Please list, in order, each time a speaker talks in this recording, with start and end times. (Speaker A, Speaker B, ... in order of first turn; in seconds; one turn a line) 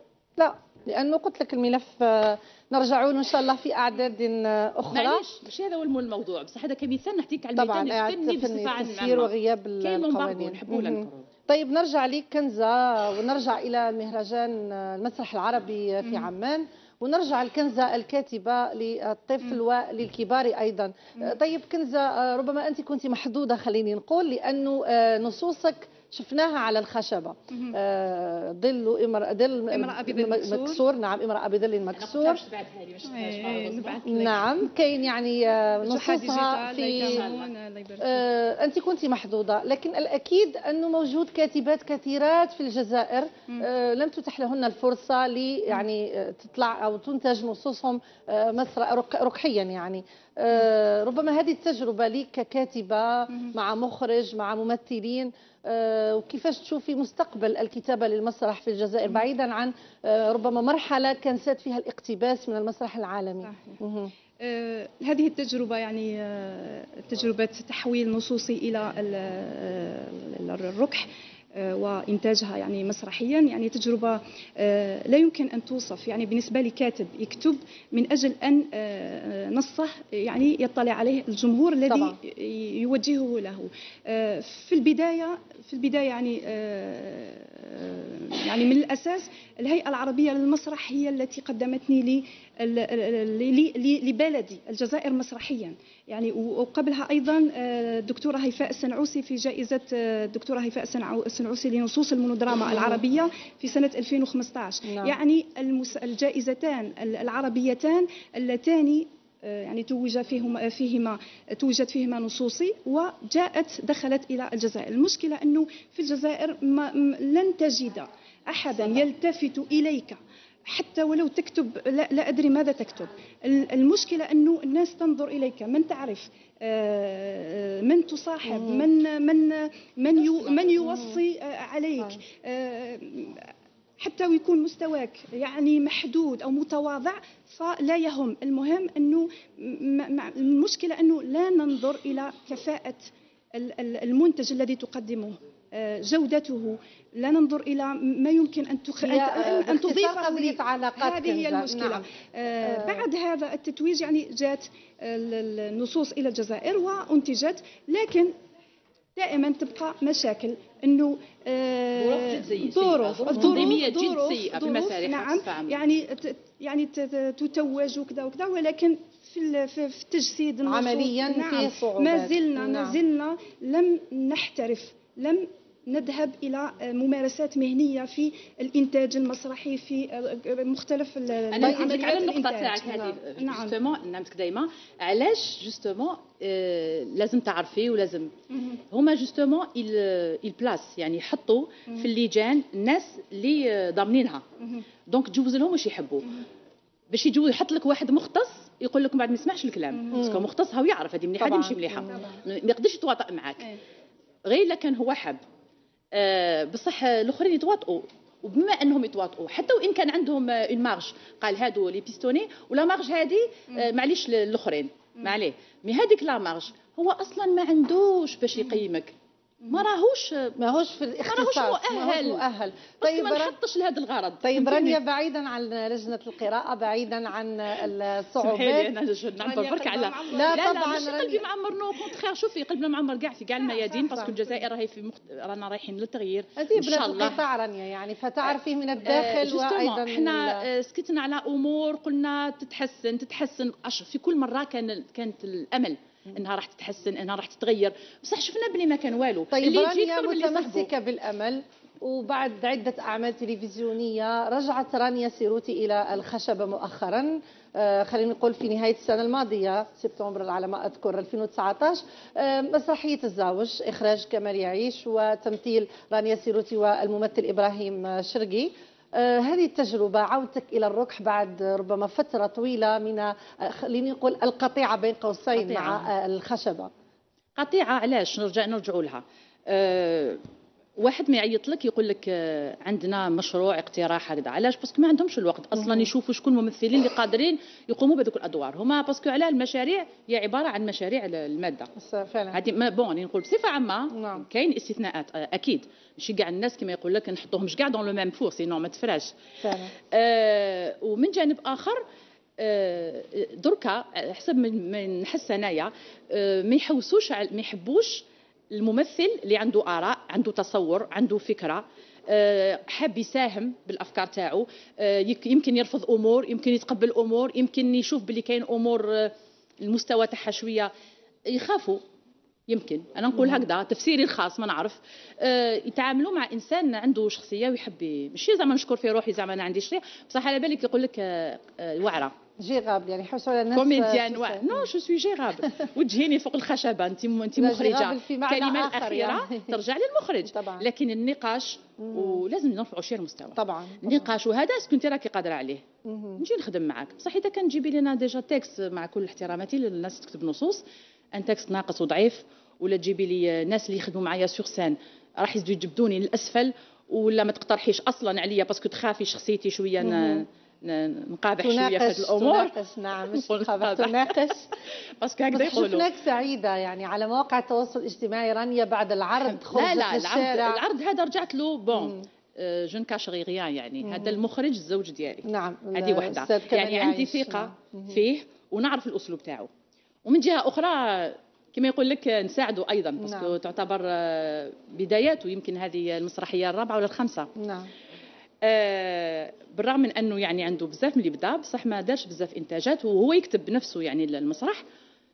Speaker A: 0.4-5.2
Speaker B: 4.9-11.3
Speaker A: 7.5-32.4
Speaker C: 29.7-30.8
Speaker B: 31.9-34.1
Speaker C: 33.1-34.5
Speaker A: 34.1-37.2
Speaker C: 35.8-38.2
Speaker B: 37.0-37.5
Speaker A: 38.0-64.1
Speaker C: 63.4-63.8
Speaker C: 64.4-158.3
Speaker A: 81.9-82.2
Speaker A: 104.9-105.2
Speaker A: 128.4-128.9
Speaker A: 130.8-131.2
Speaker A: 149.0-152.1
Speaker A: 152.6-153.1
Speaker C: 159.2-183.8
Speaker B: 161.9-165.8
Speaker A: 163.4-163.7
Speaker A: 170.6-173.0
Speaker B: 181.5-188.3
Speaker A: 181.6-181.9
Speaker B: 188.9-194.4
Speaker B: 195.1-196.3
Speaker B: 197.1-203.7
Speaker A: 200.1-200.4
Speaker A: 201.4-202.2
Speaker B: 204.4-205.4
Speaker B: 206.1-219.1
Speaker B: 219.7-220.5
Speaker A: 220.6-223.6
Speaker B: 221.3-222.4
Speaker B: 223.0-225.0
Speaker A: 224.4-228.9
Speaker B: 228.4-237.4
Speaker C: 229.5-230.8
Speaker A: 230.2-231.4
Speaker C: 233.6-234.6
Speaker A: 236.6-240.7
Speaker B: 239.0-250.9
Speaker A: 249.5-276.9
Speaker B: 275.5-276.1
Speaker B: 277.6-280.4
Speaker B: 281.0-291.9
Speaker A: 291.9-292.6
Speaker B: 292.5-299.3
Speaker A: 294.1-294.4
Speaker A: 299.6-299.9
Speaker B: 300.1-302.0
Speaker B: 302.6-320.9
Speaker B: 321.5-322.0
Speaker B: 322.7-332.3
Speaker A: 332.6-334.8
Speaker B: 333.7-345.8
Speaker A: 337.6-339.7
Speaker A: 340.4-340.9
Speaker A: 342.0-342.4
Speaker A: 343.6-344.3
Speaker A: 346.1-346.4
Speaker B: 346.4-350.8
Speaker B: 351.3-362.7
Speaker A: 360.0-360.4
Speaker A: 361.6-364.7
Speaker B: 363.3-364.7
Speaker B: 365.2-366.1
Speaker A: 365.5-370.8
Speaker B: 369.6-379.7
Speaker A: 371.9-372.2
Speaker A: 374.0-374.4
Speaker A: 375.4-378.2
Speaker B: 380.2-387.5
Speaker A: 383.2-383.5
Speaker A: 387.6-387.9
Speaker B: 388.6-394.8